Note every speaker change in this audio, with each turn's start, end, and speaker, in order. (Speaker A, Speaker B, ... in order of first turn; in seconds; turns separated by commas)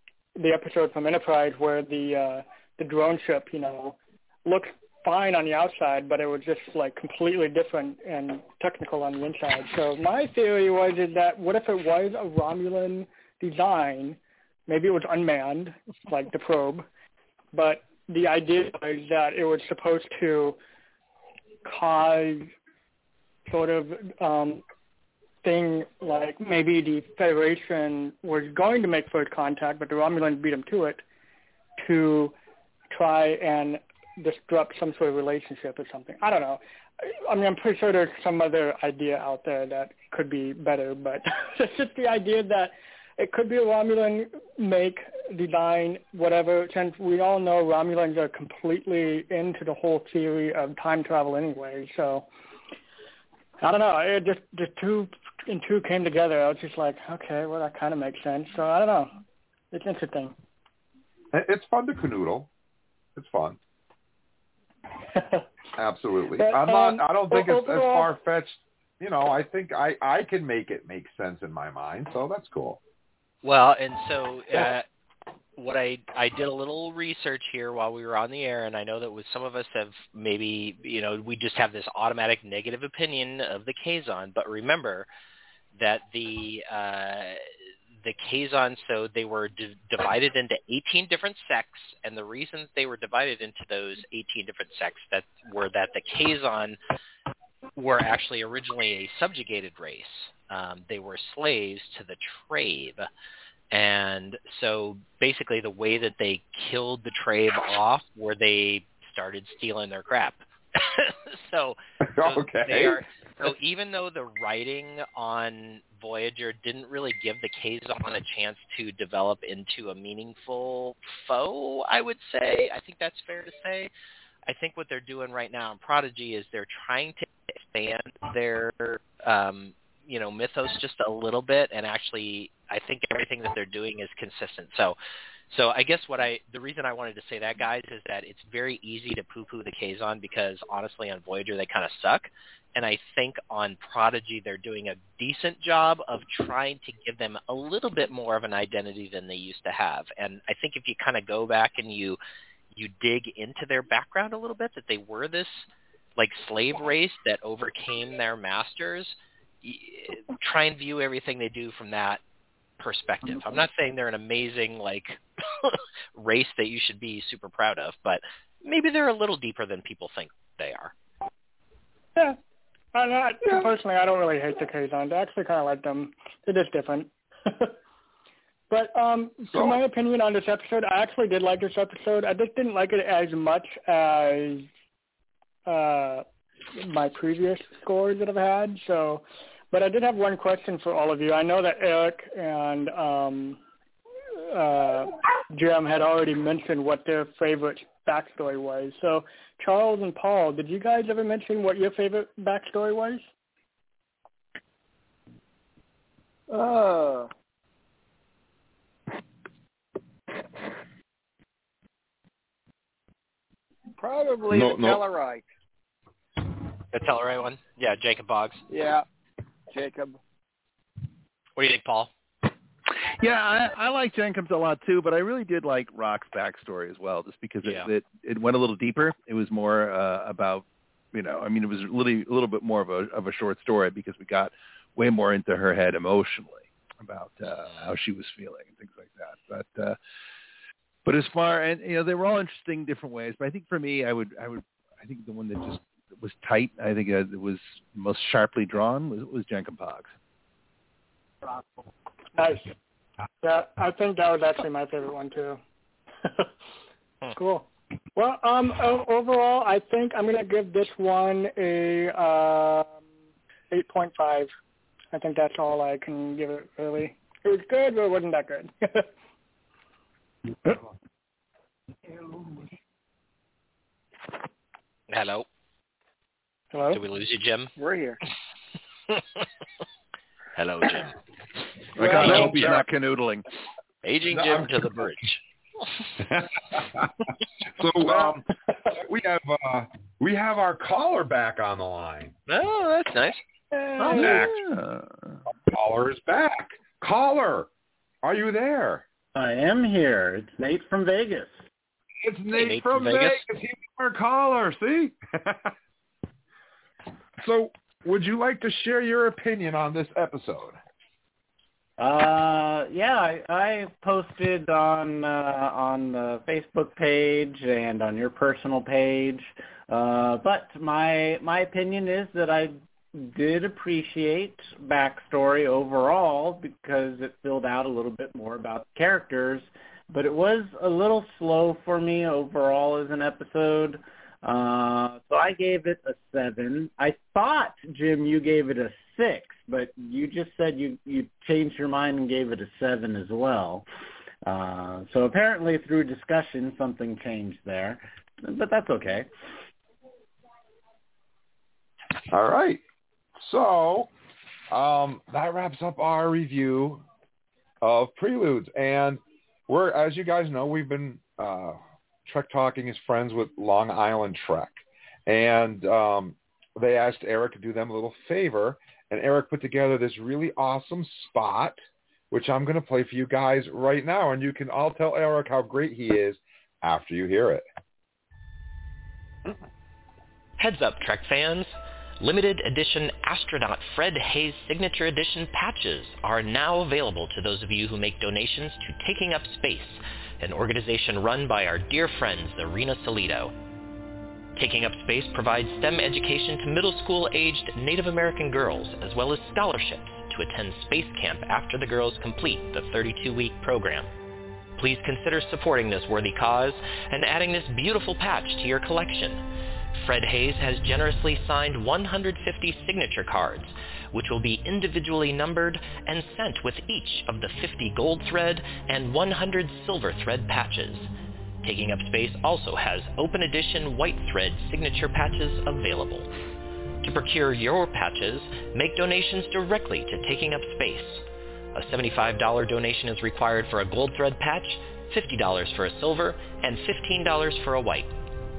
Speaker A: 0.4-16.9, Speaker A: 17.5-20.6, Speaker A: 21.6-22.5, Speaker A: 23.5-24.6, Speaker A: 25.4-31.0, Speaker A: 31.8-32.4, Speaker A: 32.9-52.3, Speaker A: 53.6-59.1, Speaker A: 59.7-60.4, Speaker B: 61.3-62.5, Speaker B: 63.2-63.6, Speaker A: 65.2-65.4, Speaker B: 65.8-72.8, Speaker A: 66.4-68.1, Speaker C: 73.4-74.9, Speaker C: 75.6-85.1, Speaker C: 85.8-87.5, Speaker C: 88.0-96.8, Speaker C: 97.8-103.1, Speaker C: 103.7-123.9, Speaker B: 112.0-113.5, Speaker C: 124.5-135.0, Speaker C: 135.5-152.2, Speaker C: 152.8-162.2, Speaker C: 162.8-170.9, Speaker A: 172.9-177.8, Speaker B: 173.5-173.7, Speaker A: 178.7-184.7, Speaker B: 179.5-179.8, Speaker A: 185.7-193.6, Speaker A: 194.5-203.2, Speaker D: 206.5-207.3, Speaker D: 214.0-215.5, Speaker B: 214.5-215.0, Speaker C: 216.9-218.6, Speaker D: 218.7-219.0, Speaker D: 219.7-220.2, Speaker C: 221.6-222.1, Speaker E: 223.2-240.0, Speaker C: 227.6-227.9, Speaker E: 241.1-250.1, Speaker A: 252.3-252.7, Speaker A: 253.4-255.6, Speaker A: 256.2-256.5, Speaker A: 257.3-263.0, Speaker A: 263.7-264.5, Speaker A: 265.1-269.1, Speaker A: 272.1-272.6, Speaker C: 275.1-275.5, Speaker A: 276.7-277.0, Speaker C: 276.9-277.7, Speaker D: 277.8-278.2, Speaker C: 280.6-281.1, Speaker B: 282.0-282.9, Speaker E: 282.0-283.4, Speaker C: 282.1-282.7, Speaker C: 284.0-285.4, Speaker B: 284.3-285.1, Speaker B: 286.2-287.1, Speaker B: 287.7-292.4, Speaker C: 292.5-293.4, Speaker C: 294.0-294.4, Speaker B: 294.1-294.6, Speaker E: 294.2-295.4, Speaker B: 295.7-297.7, Speaker B: 298.2-299.0, Speaker F: 299.4-301.6, Speaker B: 302.2-305.7, Speaker C: 302.5-303.4, Speaker B: 307.4-310.8, Speaker F: 312.0-343.9, Speaker F: 344.5-349.3, Speaker B: 352.3-352.8, Speaker B: 353.4-354.1, Speaker B: 354.7-357.0, Speaker B: 357.8-371.8, Speaker B: 372.3-377.6, Speaker C: 380.6-393.5, Speaker C: 394.6-404.1, Speaker C: 404.8-409.4, Speaker C: 409.9-421.1, Speaker C: 421.6-426.3, Speaker C: 427.0-438.1